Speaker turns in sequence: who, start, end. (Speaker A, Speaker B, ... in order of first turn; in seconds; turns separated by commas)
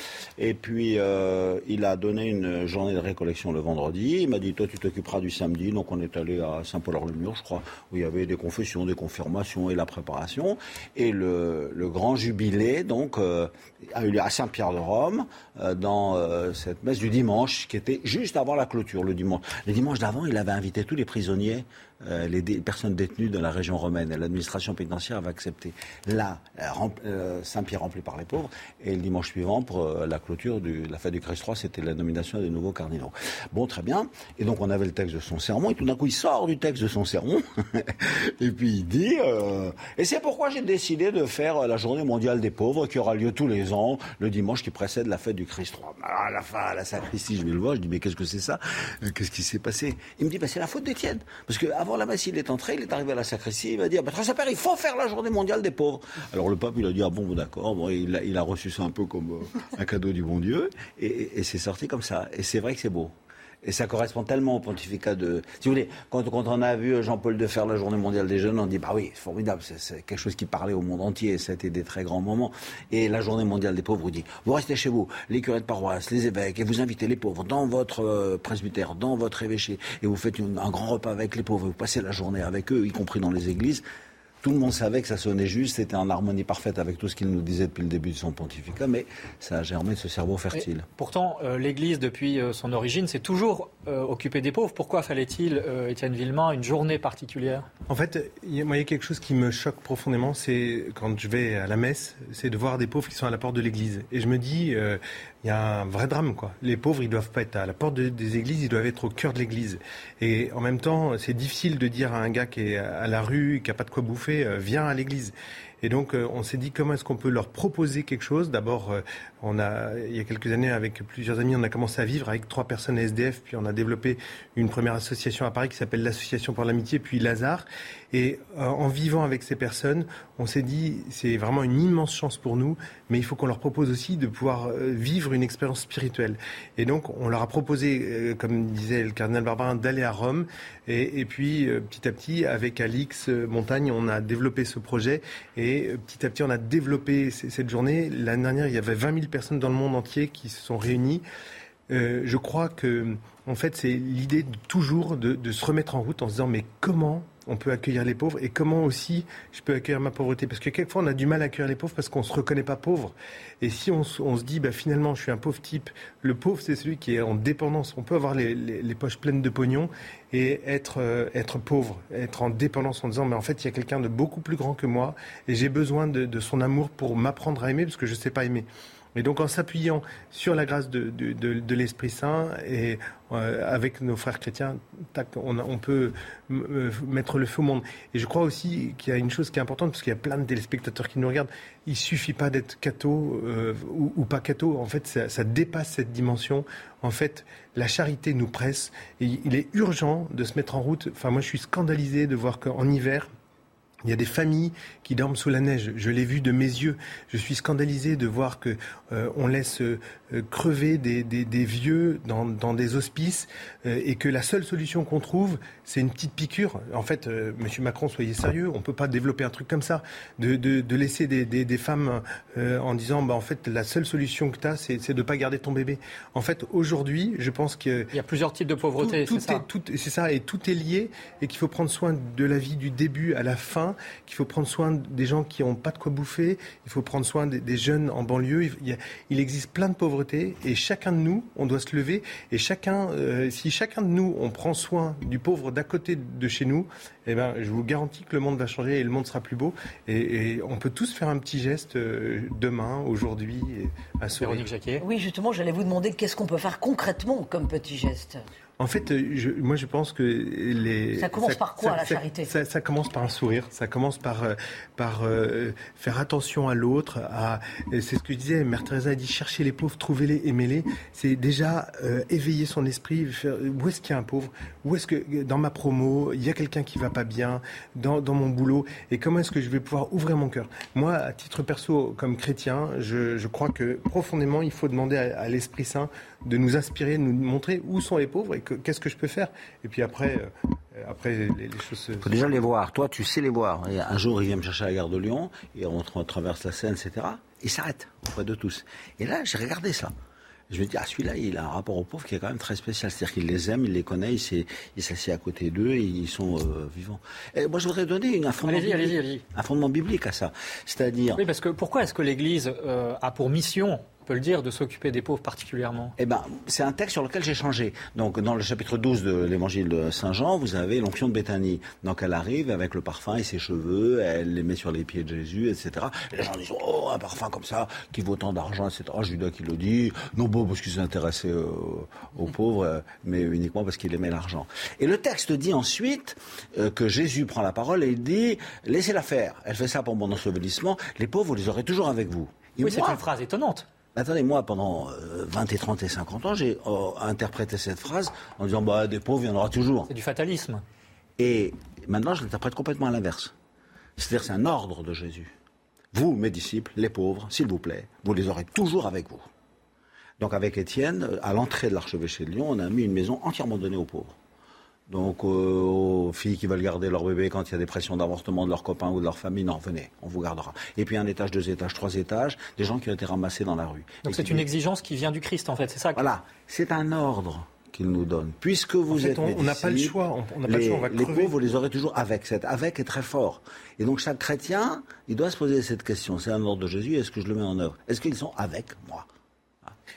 Speaker A: 0.4-83.8, Speaker A: 84.4-90.9, Speaker B: 90.5-97.7, Speaker C: 97.9-151.2, Speaker C: 151.9-203.3, Speaker C: 204.0-228.1, Speaker B: 228.1-229.7, Speaker C: 229.0-254.7, Speaker B: 254.4-255.0, Speaker D: 255.0-258.4, Speaker C: 258.8-292.4, Speaker D: 261.2-262.5, Speaker A: 292.2-300.1, Speaker A: 300.7-311.4, Speaker B: 308.7-309.4, Speaker B: 311.4-316.1, Speaker A: 316.2-343.2, Speaker B: 342.8-343.9, Speaker A: 344.1-350.1, Speaker B: 350.1-350.8, Speaker A: 351.4-353.5, Speaker A: 354.2-355.5, Speaker A: 356.1-359.5, Speaker A: 360.4-364.4, Speaker A: 365.1-374.7, Speaker B: 374.2-376.3, Speaker A: 376.2-389.3, Speaker C: 379.1-381.5